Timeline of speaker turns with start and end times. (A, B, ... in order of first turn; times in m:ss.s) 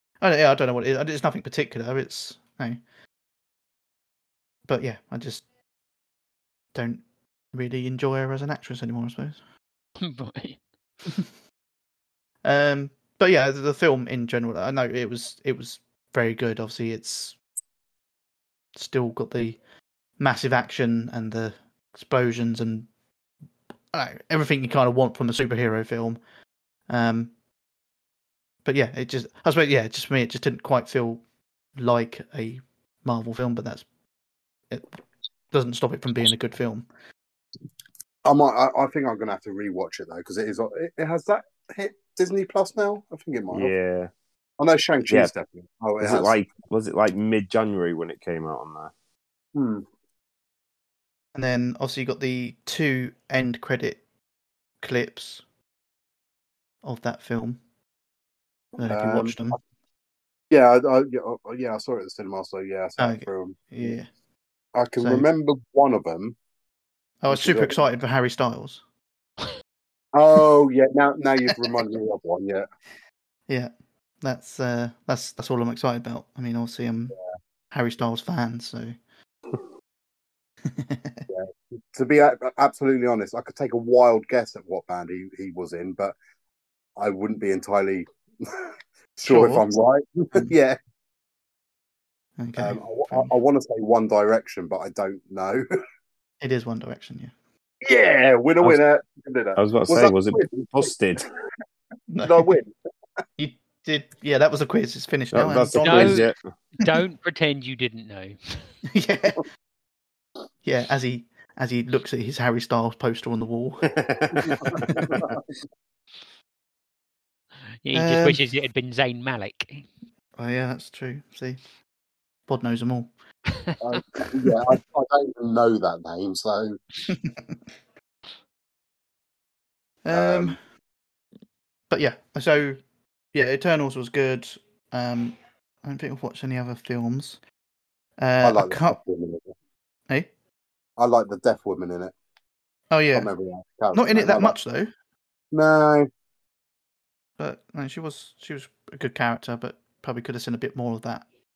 0:00.2-0:02.8 A
0:04.7-0:05.4 A
0:06.7-0:09.4 A
0:10.0-0:10.6 B
0:12.4-0:17.4 A
0:18.7-0:19.6 A
0:20.2-0:22.9 A
0:23.9-0:26.2 A
0:26.9-0:27.3 A
0:28.6-0:31.2 A
0:31.8-0:33.8 A
0:34.7-0:35.0 A
0:35.5-0:36.8 A
0:38.2-0:43.7 C
0:43.5-0:44.1 D
0:44.6-0:46.3 C
0:46.0-0:48.9 D
0:49.5-0:49.8 C
0:51.3-0:54.0 A
0:54.8-0:55.4 A
0:56.8-0:57.6 A
0:58.8-0:59.6 C
0:58.8-0:59.6 A
1:00.5-1:03.9 C
1:03.0-1:04.1 A
1:04.7-1:06.3 C
1:05.0-1:05.2 A
1:07.2-1:08.8 A
1:07.3-1:07.7 C
1:10.1-1:12.7 C
1:14.2-1:17.1 A
1:17.7-1:18.9 A
1:20.7-1:21.2 A
1:21.3-1:26.1 C
1:27.0-1:30.8 C
1:29.2-1:29.6 A
1:32.4-1:33.3 A
1:32.6-1:35.6 C
1:36.4-1:37.3 A
1:37.8-1:40.9 C
1:39.6-1:41.3 D
1:42.1-1:42.5 A
1:42.2-1:42.7 C
1:43.4-1:46.2 A
1:45.3-1:46.5 D
1:45.8-1:48.7 B
1:48.9-1:49.4 A
1:50.6-1:53.9 A
1:54.0-1:55.3 D
1:54.4-1:55.2 A
1:54.5-1:55.4 C
1:57.8-1:59.9 B
1:57.9-1:58.4 A
2:00.4-2:01.6 A
2:02.5-2:03.1 A
2:03.5-2:03.8 B
2:03.8-2:06.8 C
2:07.1-2:07.5 A
2:10.0-2:10.6 A
2:10.1-2:10.6 C
2:11.9-2:12.8 A
2:13.3-2:17.4 A
2:18.2-2:19.0 A
2:18.4-2:19.5 C
2:21.0-2:22.1 C
2:22.9-2:23.3 A
2:23.1-2:24.5 C
2:23.9-2:24.9 A
2:25.5-2:26.1 C
2:27.4-2:31.2 A